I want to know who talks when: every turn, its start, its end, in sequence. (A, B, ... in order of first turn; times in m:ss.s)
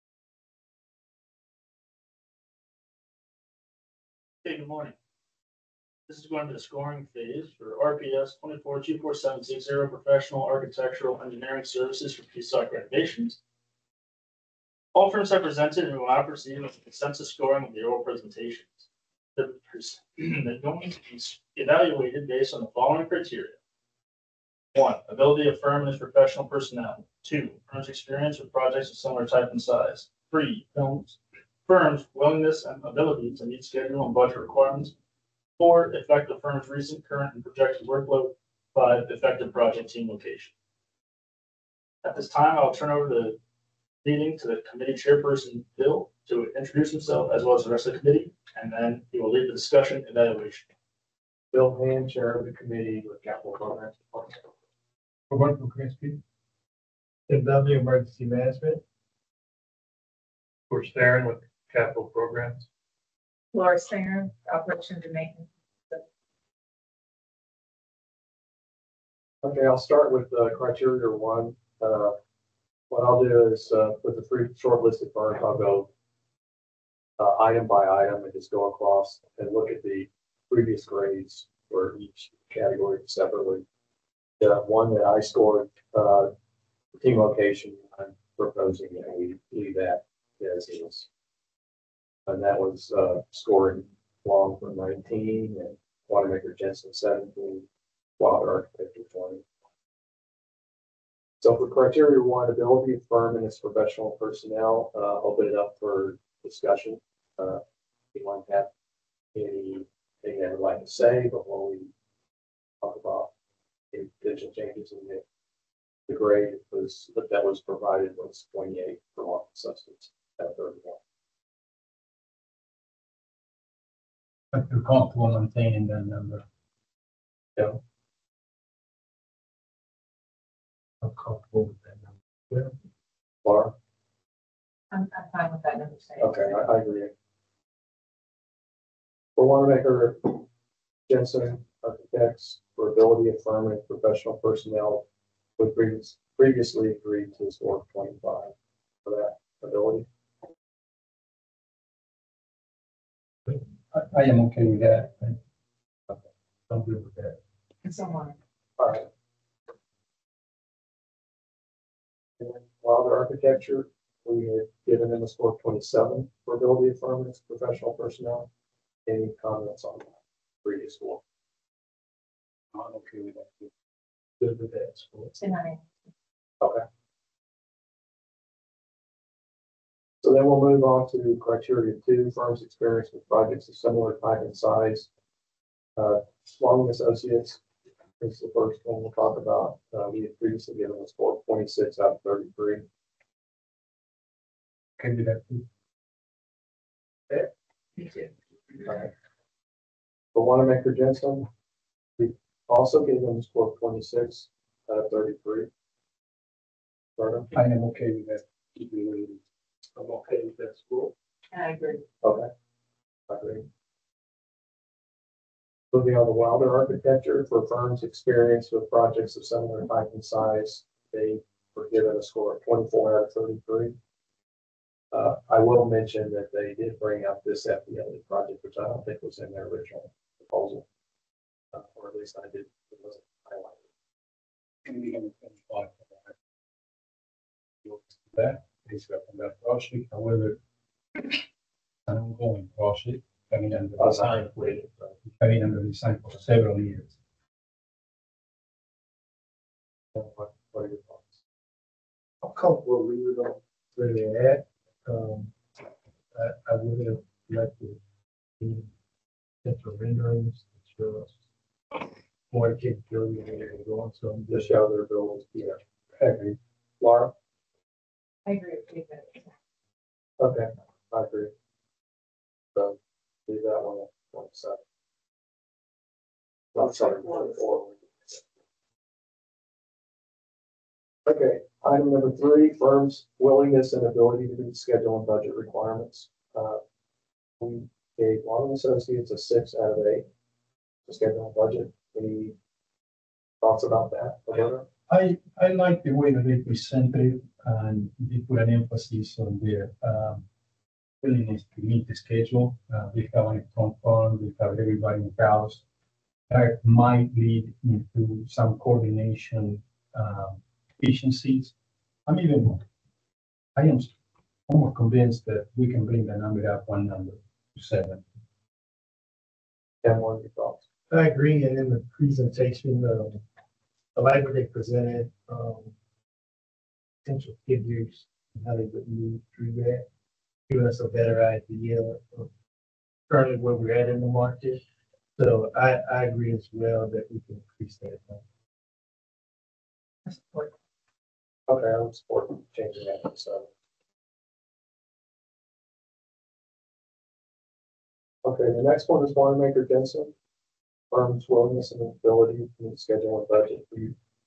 0:04.4-0:05.0 A
0:06.1-0:13.4 A
0:14.9-0:23.6 A
0:24.7-0:35.0 A
0:35.6-0:40.5 A
0:42.0-0:43.4 A
0:44.0-0:50.7 A
0:51.5-0:54.5 B
0:55.3-0:56.2 C
0:57.3-0:58.8 C
1:03.5-1:06.0 D
1:09.4-1:12.2 B
1:12.9-1:15.9 B
1:17.2-1:23.6 B
1:24.4-1:26.3 B
1:26.9-1:31.1 B
1:32.3-1:37.7 B
1:38.2-1:39.4 B
1:41.4-1:47.6 B
1:48.1-1:48.7 B
1:49.3-1:51.9 B
1:52.8-1:53.3 B
1:53.9-1:55.2 B
1:56.1-2:01.0 B
2:04.5-2:06.4 E
2:11.0-2:12.7 C
2:13.4-2:13.8 B
2:14.9-2:16.6 D
2:16.2-2:17.1 B
2:19.4-2:20.5 B
2:21.1-2:25.0 B
2:25.6-2:30.1 B
2:33.5-2:35.4 E
2:36.7-2:37.4 E
2:37.8-2:38.4 D
2:38.8-2:39.1 B
2:42.4-2:48.5 B
2:49.1-2:51.2 B
2:52.7-2:53.7 E
2:54.4-2:55.3 C
2:55.4-2:55.8 D
3:00.2-3:05.1 B
3:06.0-3:07.6 B
3:08.2-3:12.8 B
3:15.0-3:15.6 E
3:18.8-3:19.1 B
3:20.3-3:21.5 B
3:22.2-3:25.7 B
3:27.2-3:27.5 B
3:27.5-3:29.4 E
3:30.0-3:31.1 E
3:31.5-3:32.0 D
3:32.2-3:32.5 B
3:33.3-3:33.7 B
3:35.9-3:44.0 B
3:45.1-3:50.9 B
3:51.7-3:53.8 B
3:54.8-3:56.3 E
3:57.8-4:00.6 E
4:02.1-4:04.7 E
4:04.0-4:05.2 B
4:05.4-4:07.2 E
4:10.1-4:11.4 B
4:12.4-4:15.5 C
4:16.3-4:18.0 C
4:18.6-4:18.9 C
4:19.6-4:21.4 C
4:22.5-4:24.8 C
4:24.5-4:25.8 B
4:26.2-4:26.6 E
4:27.0-4:27.3 B
4:28.5-4:29.5 D
4:30.4-4:31.5 B
4:32.8-4:34.8 B
4:36.7-4:38.4 B
4:41.3-4:46.8 B
4:47.6-4:50.3 B
4:51.1-4:52.6 B
4:53.6-4:54.9 B
4:55.1-5:00.4 E
5:01.2-5:05.8 E
5:06.5-5:11.7 E
5:12.3-5:12.8 E
5:13.8-5:14.1 E
5:14.7-5:18.2 E
5:20.0-5:20.8 B
5:21.1-5:23.4 C
5:24.2-5:25.9 C
5:27.2-5:30.0 C
5:30.7-5:32.5 C
5:33.3-5:34.8 C
5:35.4-5:38.4 C
5:40.3-5:40.7 D
5:41.7-5:43.7 B
5:48.4-5:50.3 B
5:51.1-5:54.2 B